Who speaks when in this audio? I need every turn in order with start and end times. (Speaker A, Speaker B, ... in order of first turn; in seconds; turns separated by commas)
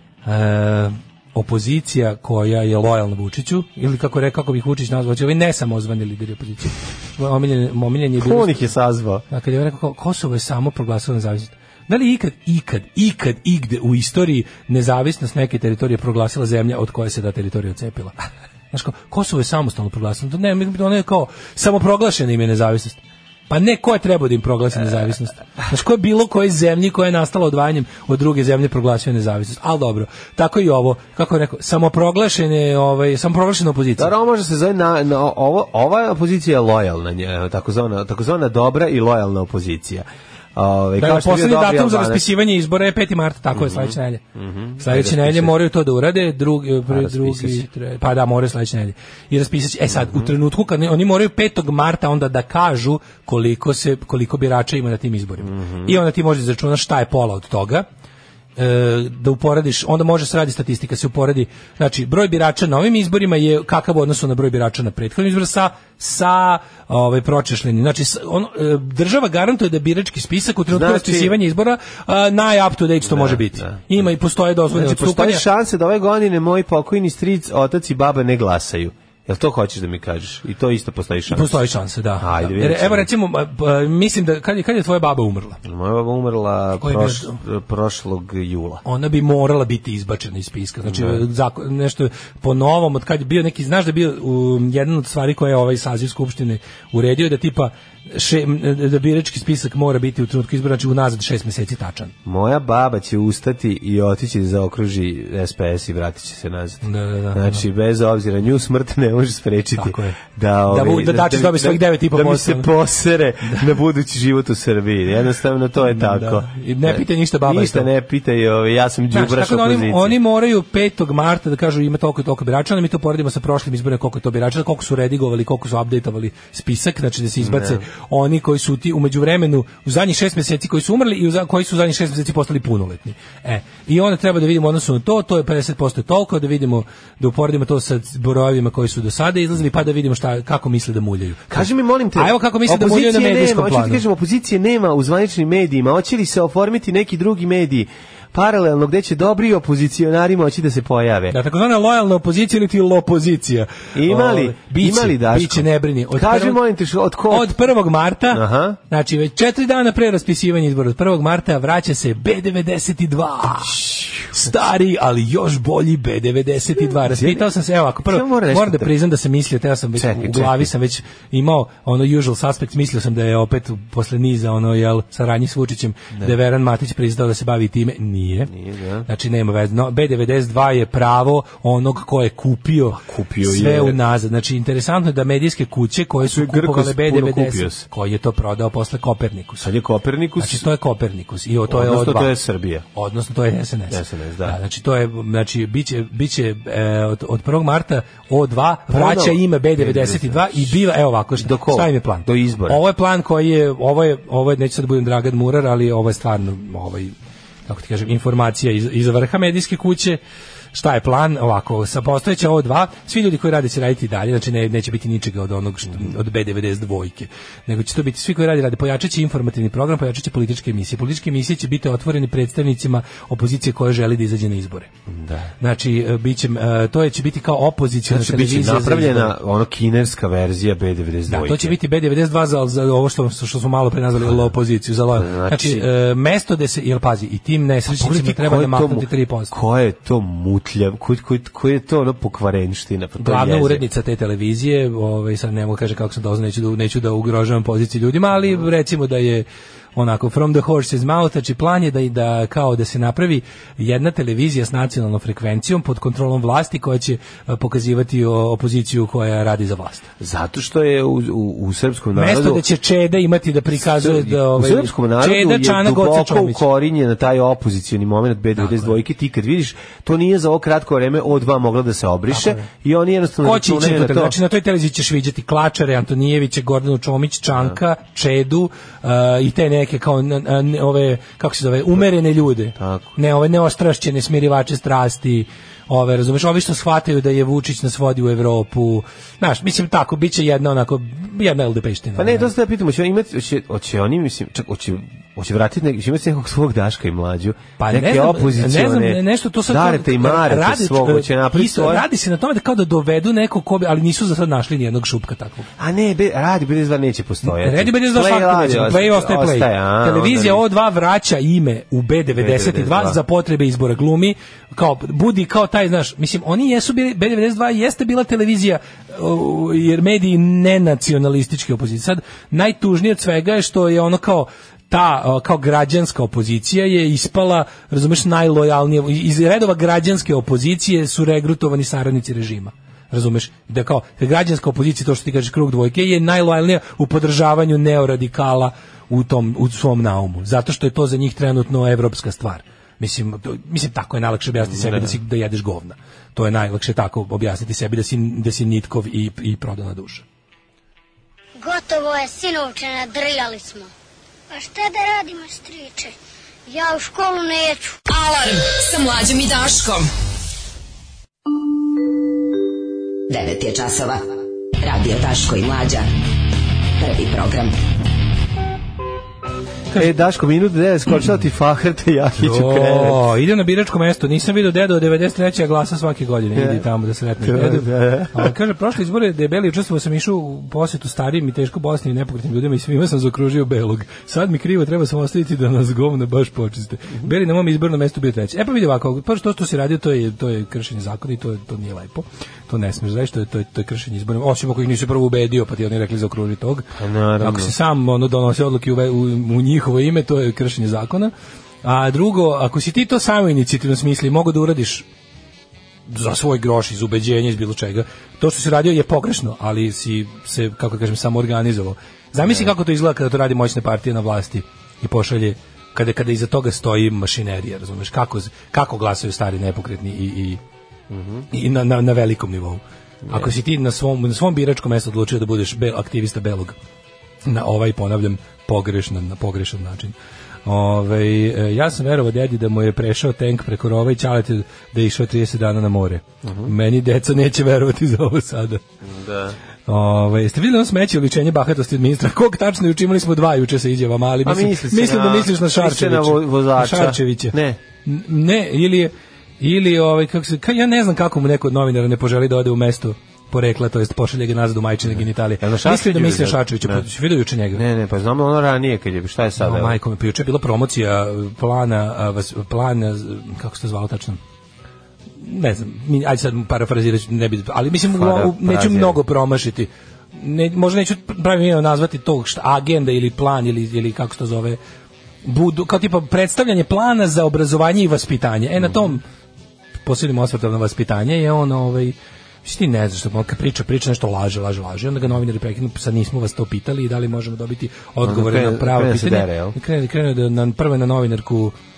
Speaker A: 0.2-8.6, Speaker B: 8.2-9.2, Speaker A: 9.3-18.2, Speaker A: 18.7-34.1, Speaker B: 34.0-42.2, Speaker A: 41.0-44.2, Speaker B: 43.5-45.5, Speaker A: 44.8-57.9, Speaker B: 46.9-47.6, Speaker B: 49.9-50.3, Speaker B: 55.4-56.0, Speaker A: 58.5-75.4, Speaker B: 70.7-71.4, Speaker B: 73.0-74.1, Speaker B: 74.7-81.6, Speaker A: 81.3-85.6, Speaker B: 82.2-83.1, Speaker B: 85.6-88.8, Speaker A: 86.8-87.4, Speaker A: 88.8-102.1, Speaker B: 90.8-91.2, Speaker B: 102.2-120.2, Speaker A: 106.8-107.6, Speaker A: 109.8-110.2, Speaker A: 110.7-112.7, Speaker A: 115.9-117.9, Speaker A: 119.1-144.0, Speaker B: 127.4-127.8, Speaker B: 141.5-151.3, Speaker A: 151.3-156.6, Speaker B: 153.9-157.6, Speaker A: 157.3-178.5, Speaker B: 158.3-158.8, Speaker B: 163.8-164.3, Speaker B: 167.1-167.5, Speaker B: 168.0-168.9, Speaker B: 169.9-170.7, Speaker B: 178.5-179.1, Speaker A: 179.1-189.7, Speaker B: 183.0-184.0, Speaker B: 186.2-187.8, Speaker B: 189.6-190.6, Speaker A: 190.4-192.3, Speaker B: 191.7-192.8, Speaker A: 192.9-207.1, Speaker B: 193.9-194.6, Speaker B: 198.9-200.7, Speaker B: 201.4-202.8, Speaker A: 207.7-210.2, Speaker A: 210.7-224.9, Speaker B: 225.1-225.5, Speaker A: 225.6-229.3, Speaker B: 228.1-231.7, Speaker A: 231.3-239.5, Speaker B: 234.2-234.5, Speaker B: 235.1-235.9, Speaker B: 237.9-243.8, Speaker A: 243.2-260.1, Speaker B: 260.2-262.6, Speaker A: 262.1-266.6, Speaker B: 263.7-274.4, Speaker A: 268.6-268.9, Speaker A: 272.3-272.6, Speaker A: 273.4-292.5, Speaker B: 282.8-283.1, Speaker B: 292.2-302.1, Speaker A: 297.8-305.7, Speaker B: 305.8-310.6, Speaker A: 307.4-350.2, Speaker B: 312.4-313.2, Speaker B: 344.6-345.2, Speaker C: 351.6-353.9, Speaker C: 354.5-356.1, Speaker C: 356.7-358.0, Speaker D: 358.1-360.1, Speaker E: 363.3-364.2, Speaker E: 364.8-366.1, Speaker E: 367.0-367.7, Speaker B: 369.9-373.2, Speaker A: 372.4-396.9, Speaker B: 376.5-376.9, Speaker B: 377.4-378.5, Speaker B: 397.0-397.7, Speaker A: 397.4-401.3, Speaker A: 401.8-405.0, Speaker A: 406.1-420.6, Speaker B: 412.4-412.7, Speaker B: 421.1-421.5, Speaker A: 421.5-426.8, Speaker B: 423.2-423.5, Speaker A: 427.4-430.1, Speaker A: 430.6-438.8, Speaker B: 436.4-436.7, Speaker B: 439.0-439.6, Speaker A: 439.9-457.8, Speaker B: 444.4-447.8, Speaker B: 455.1-457.0, Speaker B: 457.7-460.0, Speaker A: 459.6-464.4, Speaker A: 465.4-474.8, Speaker B: 468.1-469.2, Speaker A: 475.4-479.2, Speaker A: 480.0-491.7, Speaker B: 488.2-489.8